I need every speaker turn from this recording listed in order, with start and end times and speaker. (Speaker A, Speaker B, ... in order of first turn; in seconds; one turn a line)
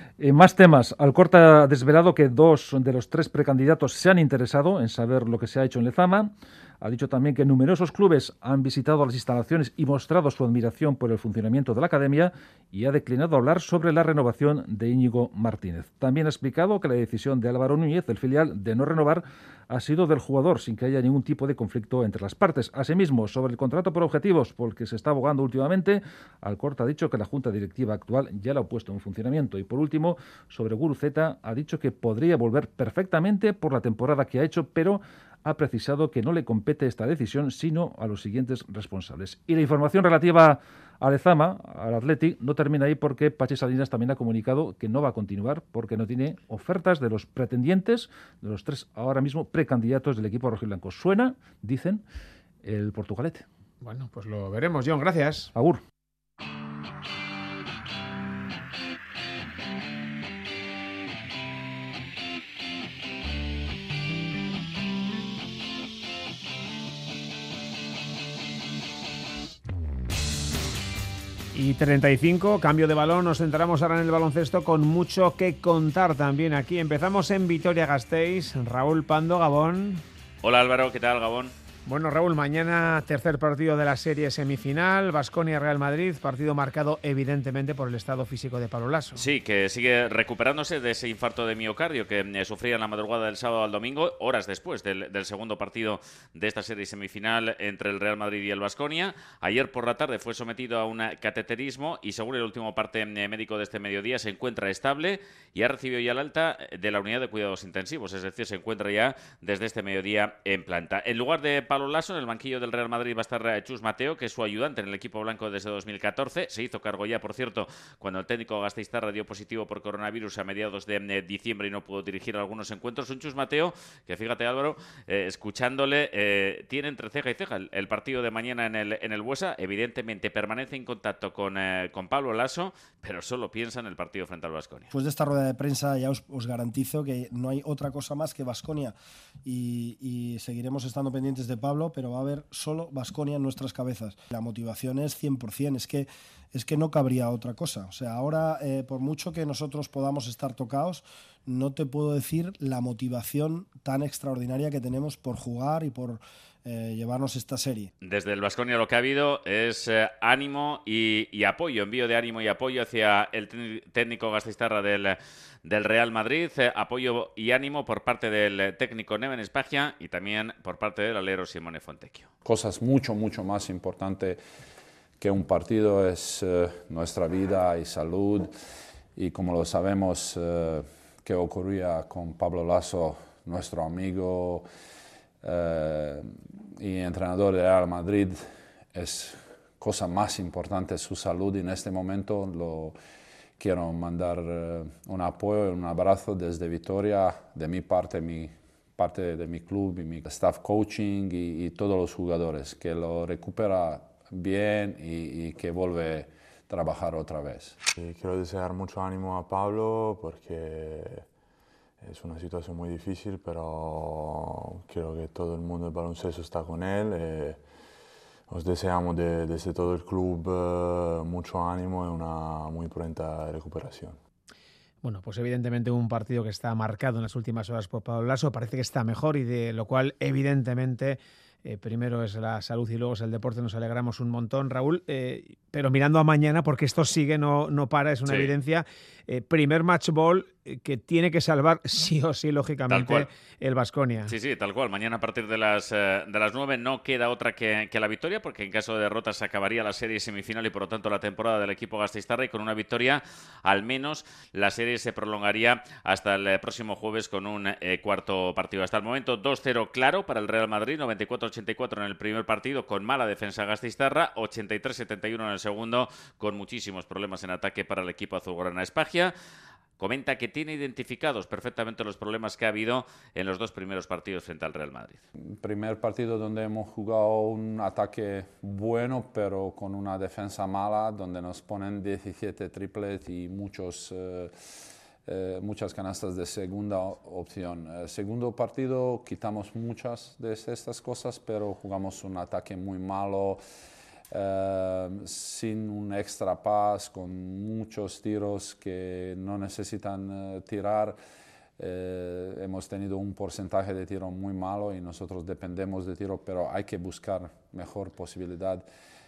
Speaker A: 0.2-52.0
Speaker A: 52.6-53.5
Speaker B: 53.8-55.5
Speaker A: 55.5-55.8
Speaker B: 71.5-80.0
Speaker C: 80.4-81.5
Speaker B: 81.8-89.2
Speaker C: 89.2-134.9
Speaker D: 134.9-157.9
Speaker C: 158.0-172.3
Speaker E: 172.4-174.4
Speaker E: 175.2-178.5
Speaker E: 179.2-184.7
Speaker E: 185.4-192.9
Speaker E: 193.6-207.8
Speaker F: 207.9-211.3
Speaker F: 212.0-217.6
Speaker F: 218.5-224.2
Speaker B: 225.0-244.3
Speaker C: 242.9-243.3
Speaker C: 244.2-269.3
Speaker C: 270.0-275.2
Speaker E: 275.4-284.7
Speaker E: 285.2-293.6
Speaker E: 294.3-301.2
Speaker E: 301.8-308.9